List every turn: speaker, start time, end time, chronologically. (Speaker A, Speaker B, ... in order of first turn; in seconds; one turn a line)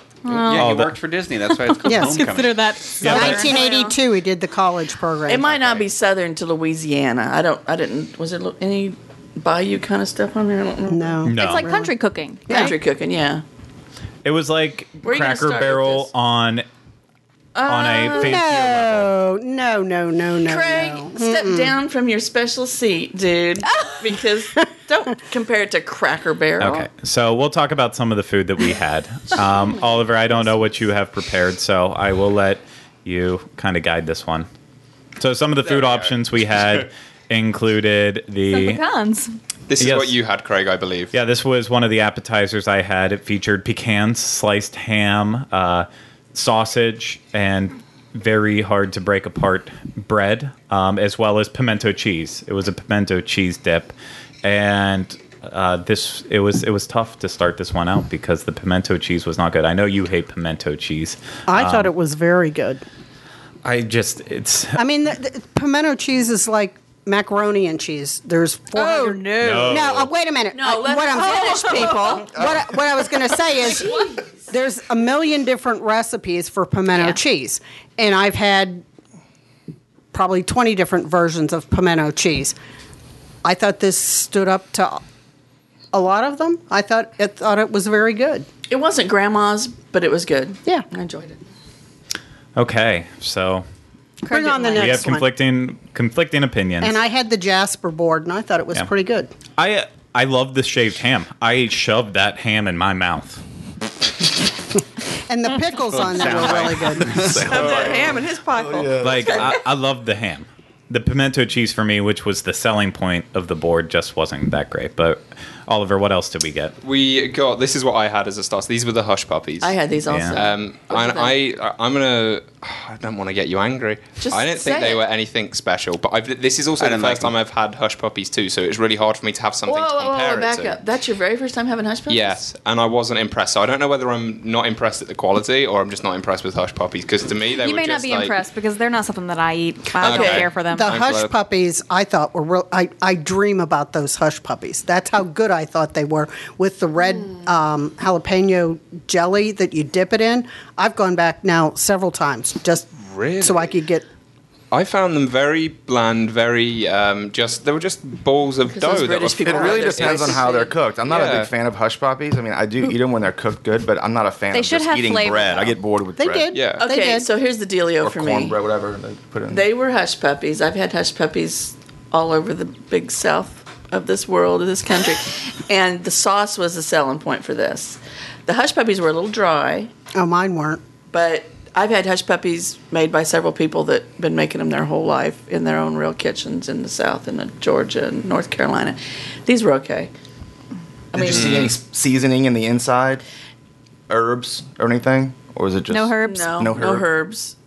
Speaker A: 0.2-0.8
Speaker B: 0.4-2.6
Speaker C: 0.5-0.9
Speaker A: 1.5-3.9
Speaker D: 1.9-2.2
Speaker C: 3.0-3.5
Speaker D: 3.0-5.5
Speaker E: 5.2-11.3
Speaker D: 10.9-11.9
Speaker C: 11.2-11.7
Speaker A: 11.3-12.7
Speaker D: 12.5-12.7
Speaker E: 12.5-13.4
Speaker C: 14.2-16.6
Speaker E: 15.0-16.1
Speaker E: 17.5-18.4
Speaker C: 17.6-19.1
Speaker D: 18.1-21.8
Speaker E: 20.4-26.9
Speaker C: 26.6-34.5
Speaker C: 35.2-38.8
Speaker A: 38.5-39.3
Speaker F: 39.7-41.1
Speaker C: 39.8-40.1
Speaker C: 41.1-53.9
Speaker C: 54.4-61.9
Speaker D: 61.5-62.8
Speaker C: 63.6-64.8
Speaker D: 64.8-78.8
Speaker A: 68.7-69.8
Speaker C: 69.4-70.1
Speaker E: 70.5-72.4
Speaker A: 71.2-72.2
Speaker E: 73.6-74.2
Speaker A: 76.9-77.2
Speaker D: 80.1-82.5
Speaker D: 83.4-85.0
Speaker D: 85.9-88.5
Speaker E: 88.7-91.4
Speaker C: 92.5-93.7
Speaker A: 94.2-95.1
Speaker D: 94.3-95.2
Speaker C: 94.7-96.9
Speaker D: 96.8-99.3
Speaker C: 99.6-103.4
Speaker D: 105.3-107.3
Speaker B: 105.9-107.6
Speaker G: 107.0-109.5
Speaker E: 107.3-109.6
Speaker C: 109.0-116.7
Speaker F: 116.8-119.8
Speaker E: 119.6-121.3
Speaker C: 120.1-120.4
Speaker F: 120.3-130.8
Speaker E: 124.2-125.0
Speaker B: 126.8-127.3
Speaker E: 129.7-132.4
Speaker F: 132.1-138.3
Speaker A: 137.6-140.9
Speaker F: 140.0-141.3
Speaker E: 140.0-140.5
Speaker D: 140.7-154.0
Speaker F: 153.0-153.7
Speaker F: 154.7-160.4
Speaker E: 158.7-160.7
Speaker G: 159.4-166.5
Speaker F: 161.0-161.5
Speaker A: 164.5-165.8
Speaker D: 166.2-167.3
Speaker F: 166.5-166.9
Speaker E: 166.7-168.6
Speaker G: 168.0-169.6
Speaker E: 169.5-179.9
Speaker D: 180.1-180.8
Speaker E: 181.1-190.1
Speaker G: 191.1-193.2
Speaker E: 191.2-191.5
Speaker F: 191.2-191.7
Speaker G: 194.1-197.1
Speaker A: 195.9-196.7
Speaker E: 196.2-197.5